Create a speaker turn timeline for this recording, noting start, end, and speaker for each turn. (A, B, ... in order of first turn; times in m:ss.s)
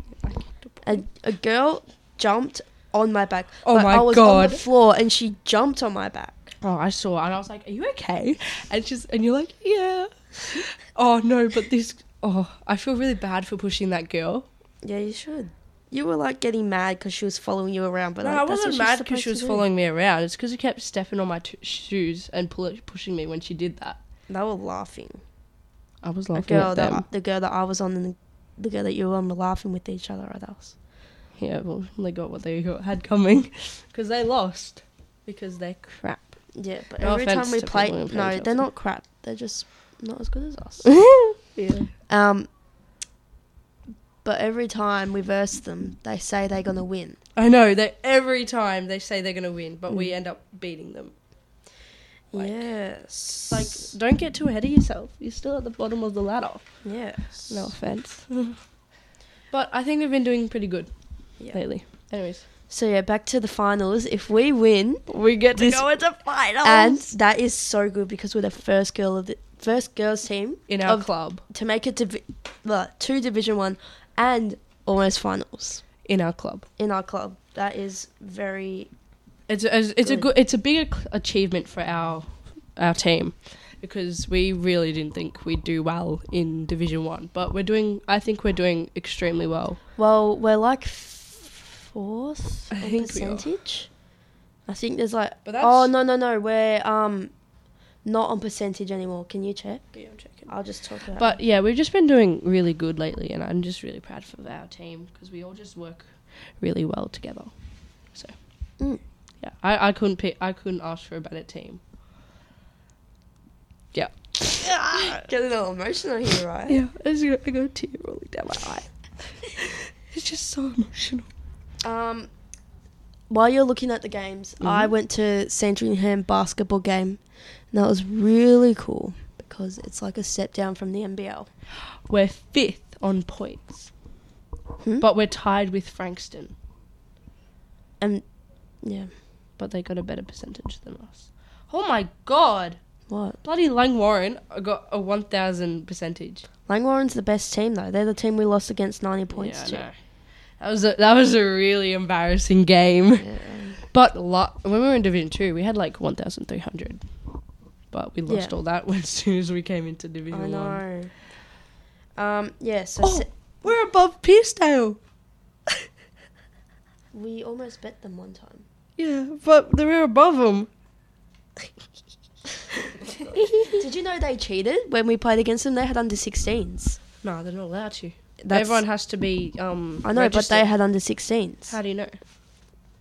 0:00.2-0:01.0 A
0:00.8-0:06.5 B
0:03.6-0:04.6 A
0:06.6-0:14.5 A
0:14.8-0:19.6 B
0:18.2-0:24.0 A
0:24.3-0:25.2 B
0:26.0-0:27.0 A
0:26.3-0:30.8 B
0:31.4-0:38.6 A
0:36.5-0:40.9 B
0:40.9-0:41.9 A
0:42.1-0:42.5 B
0:44.2-0:47.2 B
0:47.4-0:51.1 A
0:49.9-0:50.1 B
0:52.3-0:53.9 B
0:52.3-0:52.6 A
0:53.5-0:56.7 A
0:56.8-0:57.7 B
0:57.5-0:58.6 A
0:59.5-1:02.4 A
1:02.7-1:05.8 B
1:05.1-1:07.1 A
1:06.6-1:15.8 B
1:10.7-1:11.4 A
1:16.0-1:16.7 A
1:16.8-1:18.9 B
1:19.5-1:29.8 A
1:20.0-1:20.3 B
1:30.0-1:33.9 B
1:32.7-1:33.4 A
1:34.7-1:37.3 B
1:35.4-1:35.9 A
1:38.0-1:39.9 B
1:39.9-1:40.5 A
1:40.5-1:41.4 B
1:41.2-1:47.5 A
1:49.4-1:51.8 A
1:53.9-1:55.2 A
1:54.7-1:56.8 B
1:56.7-2:01.3 A
2:01.8-2:02.3 B
2:03.3-2:11.5 B
2:04.6-2:04.9 A
2:12.1-2:13.9 A
2:15.0-2:16.5 A
2:18.0-2:18.3 B
2:18.8-2:19.1 B
2:19.6-2:22.8 A
2:23.1-2:23.4 B
2:23.4-2:26.5 A
2:26.7-2:29.9 B
2:29.3-2:30.0 A
2:30.6-2:33.3 A
2:33.2-2:33.8 B
2:33.8-2:37.1 A
2:37.9-2:40.8 A
2:38.3-2:38.6 B
2:40.3-2:41.1 B
2:42.2-2:43.3 B
2:43.0-2:45.0 A
2:47.1-2:48.6 B
2:49.0-2:50.7 A
2:53.3-2:53.8 A
2:53.7-2:57.0 B
2:57.2-3:00.7 A
2:58.4-2:58.8 B
3:00.0-3:01.8 B
3:01.7-3:02.2 A